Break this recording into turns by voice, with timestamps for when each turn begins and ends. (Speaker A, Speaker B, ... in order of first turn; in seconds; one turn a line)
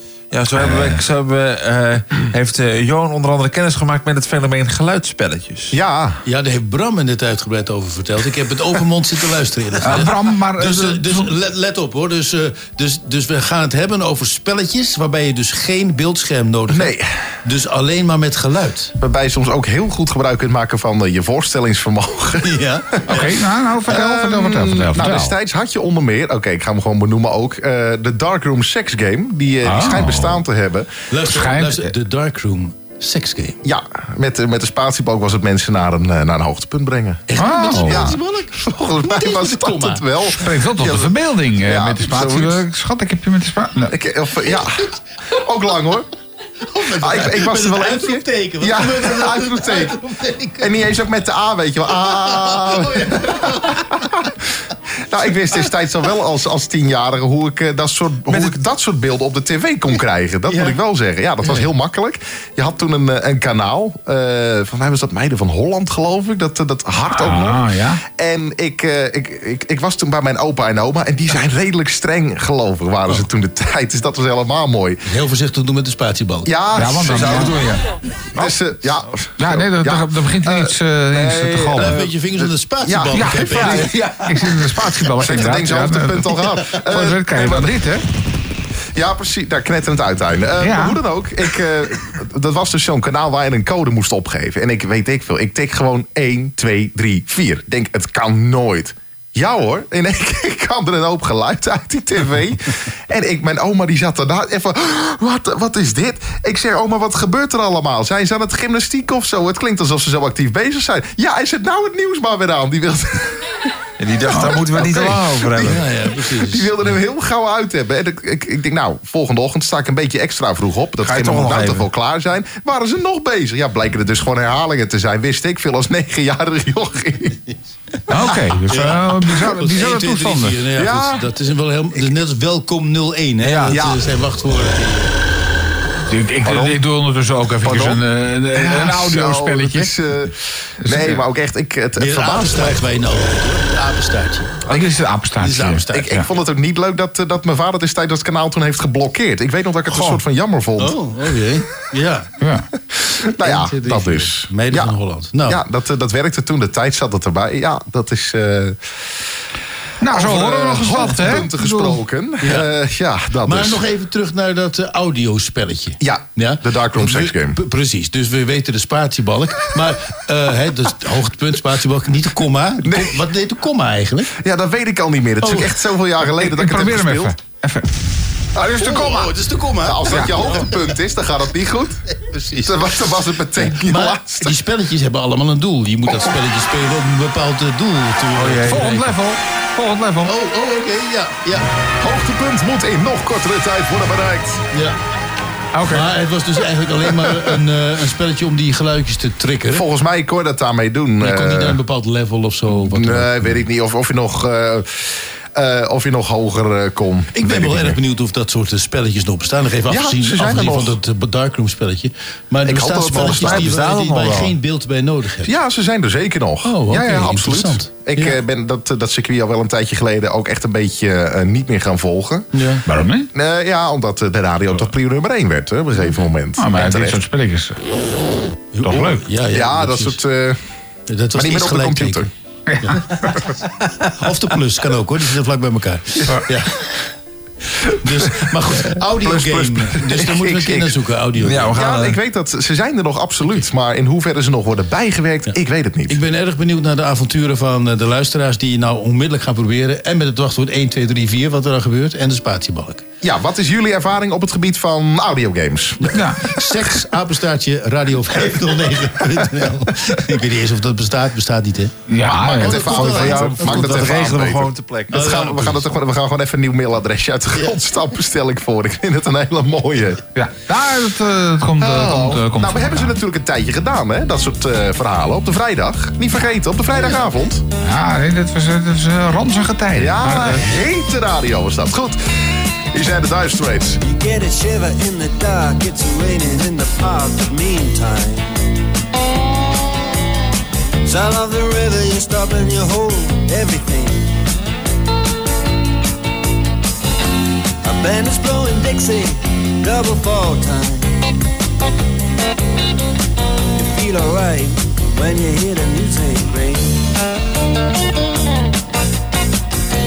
Speaker A: 0.3-5.8
Speaker B: 0.5-1.0
Speaker C: 5.7-6.2
Speaker D: 6.2-18.9
Speaker B: 9.8-11.3
Speaker C: 16.7-17.1
Speaker C: 19.0-23.3
Speaker D: 22.4-23.0
Speaker B: 23.1-25.3
Speaker C: 23.8-31.0
Speaker B: 29.6-30.4
Speaker D: 31.1-33.6
Speaker B: 31.2-31.9
Speaker C: 33.6-42.6
Speaker D: 37.3-40.0
Speaker B: 37.4-38.1
Speaker B: 40.3-43.9
Speaker C: 43.9-46.1
Speaker D: 46.7-50.7
Speaker C: 47.0-50.0
Speaker C: 50.6-54.4
Speaker D: 52.0-53.8
Speaker C: 55.0-75.0
Speaker A: 58.3-58.5
Speaker D: 60.5-60.8
Speaker B: 67.1-68.0
Speaker D: 75.0-76.5
Speaker C: 76.5-77.6
Speaker B: 76.8-77.6
Speaker A: 77.0-77.8
Speaker C: 78.3-82.0
Speaker B: 79.4-82.0
Speaker D: 81.8-83.8
Speaker C: 82.8-84.1
Speaker B: 83.1-88.0
Speaker C: 84.8-87.8
Speaker C: 88.9-113.5
Speaker B: 90.6-91.0
Speaker A: 114.0-115.8
Speaker C: 114.2-127.4
Speaker D: 115.5-116.8
Speaker A: 121.0-121.8
Speaker B: 128.1-130.6
Speaker C: 128.5-128.8
Speaker D: 128.7-135.1
Speaker C: 130.7-131.2
Speaker B: 133.4-133.8
Speaker C: 133.7-134.0
Speaker B: 136.1-139.9
Speaker C: 136.4-136.8
Speaker C: 137.6-138.0
Speaker C: 138.5-143.1
Speaker B: 140.8-141.2
Speaker D: 141.9-144.6
Speaker B: 144.7-146.2
Speaker D: 145.4-146.2
Speaker C: 145.9-151.0
Speaker D: 150.8-152.3
Speaker B: 152.4-152.7
Speaker C: 153.2-154.9
Speaker D: 153.3-155.6
Speaker C: 155.4-158.8
Speaker B: 160.0-162.0
Speaker C: 160.1-163.8
Speaker D: 162.4-162.7
Speaker D: 163.4-174.3
Speaker C: 166.0-167.6
Speaker C: 172.8-173.2
Speaker C: 174.4-177.3
Speaker D: 175.4-175.8
Speaker B: 176.4-177.9
Speaker C: 178.5-179.3
Speaker B: 178.6-179.2
Speaker D: 178.8-181.0
Speaker C: 179.8-182.0
Speaker B: 180.1-180.4
Speaker D: 182.2-189.2
Speaker C: 182.6-184.6
Speaker B: 188.4-190.3
Speaker D: 190.2-191.7
Speaker C: 192.0-194.6
Speaker D: 194.7-195.0
Speaker B: 195.7-196.1
Speaker D: 195.8-199.8
Speaker C: 199.7-201.8
Speaker D: 201.2-203.6
Speaker C: 202.7-208.0
Speaker D: 207.3-215.5
Speaker C: 209.9-211.0
Speaker C: 212.6-213.8
Speaker A: 213.2-214.5
Speaker C: 215.4-222.6
Speaker D: 216.6-218.4
Speaker D: 222.5-222.8
Speaker B: 222.8-223.3
Speaker C: 223.3-227.2
Speaker B: 226.6-227.8
Speaker D: 228.7-230.2
Speaker B: 228.8-229.2
Speaker C: 229.5-230.6
Speaker D: 231.1-232.3
Speaker C: 231.3-232.3
Speaker B: 232.7-233.0
Speaker D: 232.8-233.4
Speaker D: 234.1-236.9
Speaker D: 238.0-241.8
Speaker C: 239.2-241.0
Speaker A: 241.4-242.2
Speaker C: 241.7-246.2
Speaker D: 246.1-253.0
Speaker C: 253.2-256.8
Speaker D: 256.1-264.2
Speaker B: 256.1-256.5
Speaker B: 262.1-263.1
Speaker C: 262.2-270.2
Speaker A: 262.9-265.4
Speaker D: 265.1-265.8
Speaker B: 270.3-273.1
Speaker C: 271.8-277.6
Speaker B: 277.8-280.7
Speaker C: 279.9-284.0
Speaker E: 284.0-288.6
Speaker E: 291.1-294.3
Speaker E: 297.8-301.1
Speaker E: 303.8-307.0